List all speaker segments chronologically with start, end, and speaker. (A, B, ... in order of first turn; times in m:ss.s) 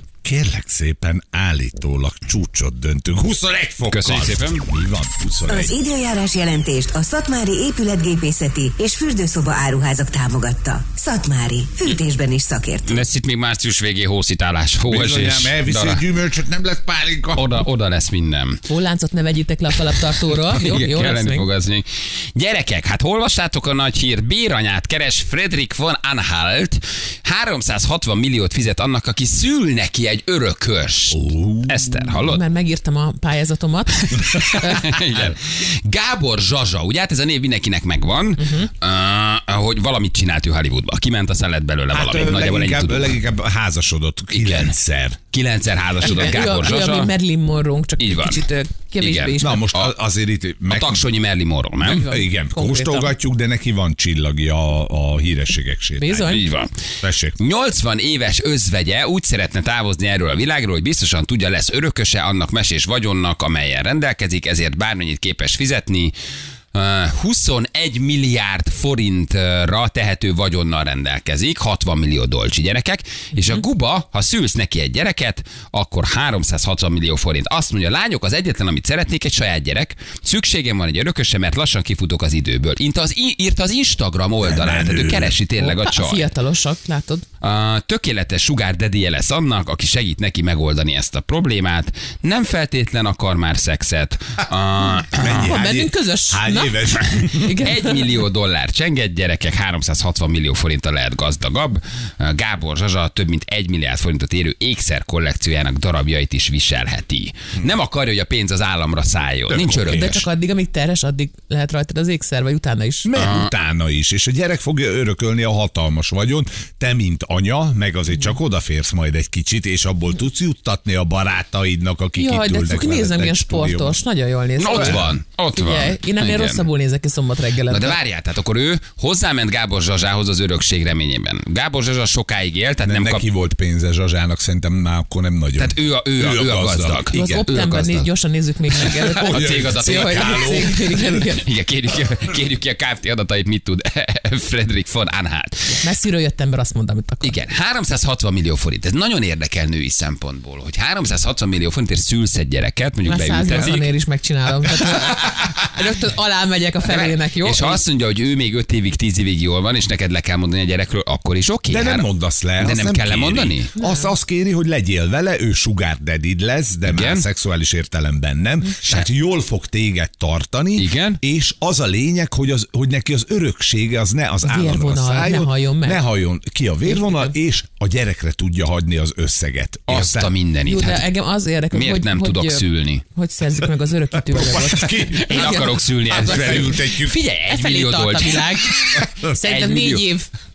0:00.2-0:05.7 A
0:03.9-0:04.6 B
0:05.4-0:13.0 C
0:12.9-0:16.0 B
0:14.9-0:17.4 A
0:17.3-0:18.6 B
0:18.6-0:21.4 D
0:20.0-0:32.4 B
0:31.1-0:32.1 A
0:32.1-0:35.0 D
0:34.0-0:43.2 B
0:38.4-0:38.7 D
0:41.9-0:45.2 A
0:44.3-0:44.8 B
0:45.3-0:47.1 B
0:46.0-0:49.7 D
0:48.0-0:48.4 B
0:49.0-0:49.9 B
0:49.4-0:51.0 A
0:50.7-0:52.1 B
0:51.8-0:53.1 D
0:51.9-0:56.2 A
0:56.0-0:56.4 D
0:56.1-0:56.7 B
0:57.0-0:57.4 A
0:57.4-1:06.1 B
1:06.7-1:26.2 B
1:24.4-1:25.4 A
1:25.6-1:27.2 D
1:27.4-1:35.5 B
1:35.1-1:37.5 A
1:35.4-1:38.2 D
1:36.9-1:50.2 B
1:49.5-1:50.2 A
1:49.9-1:53.1 D
1:53.0-2:04.0 A
1:53.1-1:53.5 B
2:02.2-2:08.0 D
2:04.6-2:06.7 B
2:04.7-2:05.2 A
2:07.7-2:13.2 B
2:12.8-2:17.5 A
2:15.6-2:18.1 B
2:17.1-2:21.4 D
2:18.7-2:25.8 B
2:18.8-2:21.2 A
2:25.8-2:27.3 D
2:27.2-2:33.9 B
2:33.0-2:37.8 D
2:36.8-2:43.7 B
2:41.7-3:00.3 A
2:43.8-2:44.1 D
2:46.8-2:47.2 B
2:48.8-2:49.1 B
2:50.8-2:51.2 B
2:54.4-2:56.0 D
2:56.8-2:57.3 D
2:59.9-3:01.1 B
3:00.6-3:06.8 D
3:01.7-3:03.0 B
3:04.2-3:07.2 A
3:05.0-3:10.1 B
3:07.4-3:10.3 D